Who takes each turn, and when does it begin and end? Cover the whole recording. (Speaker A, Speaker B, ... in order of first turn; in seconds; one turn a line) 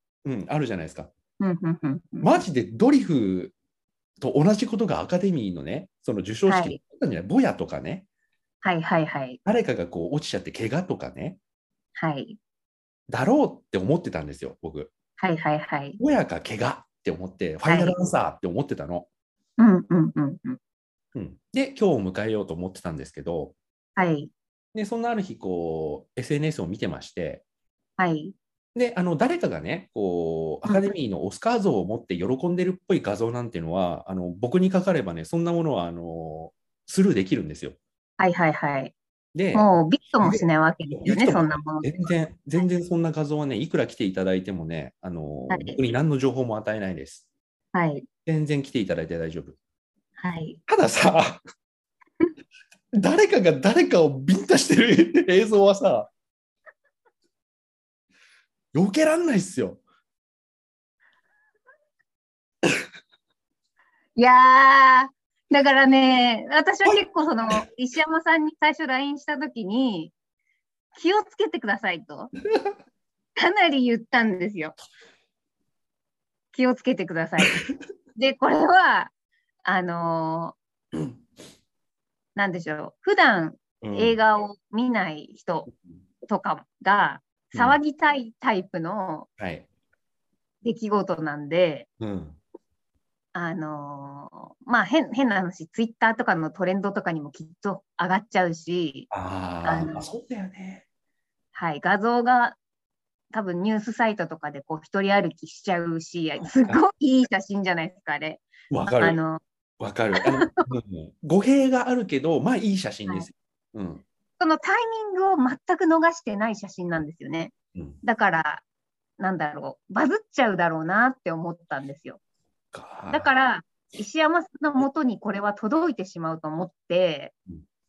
Speaker A: 0.2-1.1
Speaker B: 1.4-2.4
Speaker A: 2.2-3.5
Speaker A: 4.2-8.1
Speaker B: 6.5-6.8
Speaker B: 8.6-9.4
Speaker A: 9.4-11.4
Speaker B: 11.9-12.4
Speaker A: 13.1-14.9
Speaker B: 15.2-16.0
Speaker A: 16.0-19.1
Speaker B: 17.6-17.9
Speaker B: 19.6-20.6
Speaker A: 21.1-23.5
Speaker B: 24.0-24.3
Speaker A: 24.7-27.4
Speaker B: 28.0-28.3
Speaker A: 28.7-37.8
Speaker B: 30.6-30.9
Speaker B: 38.2-38.9
Speaker A: 39.3-39.7
Speaker B: 39.5-42.1
Speaker A: 40.2-47.2
Speaker B: 45.5-45.8
Speaker B: 47.7-48.1
Speaker A: 48.2-49.6
Speaker B: 50.2-50.6
Speaker A: 50.7-51.4
Speaker A: 52.9-56.1
Speaker A: 58.7-59.8
Speaker B: 64.2-70.1
Speaker B: 70.9-72.3
Speaker B: 73.4-74.8
Speaker B: 76.5-77.6
Speaker B: 78.1-79.1
Speaker B: 79.6-80.6
Speaker B: 82.3-85.7
Speaker A: 83.8-84.2
Speaker B: 86.3-89.3
Speaker A: 87.5-87.8
Speaker A: 89.4-89.7
Speaker B: 90.6-91.9
Speaker A: 92.0-92.4
Speaker B: 93.3-99.1
Speaker A: 99.1-100.8
Speaker B: 99.6-100.0
Speaker B: 101.5-102.6
Speaker B: 103.3-109.4
Speaker A: 106.4-106.8
Speaker A: 108.7-109.2
Speaker A: 109.8-114.0
Speaker B: 110.2-110.6
Speaker B: 114.4-118.6
Speaker B: 119.2-122.2
Speaker A: 122.7-123.3
Speaker B: 123.1-127.3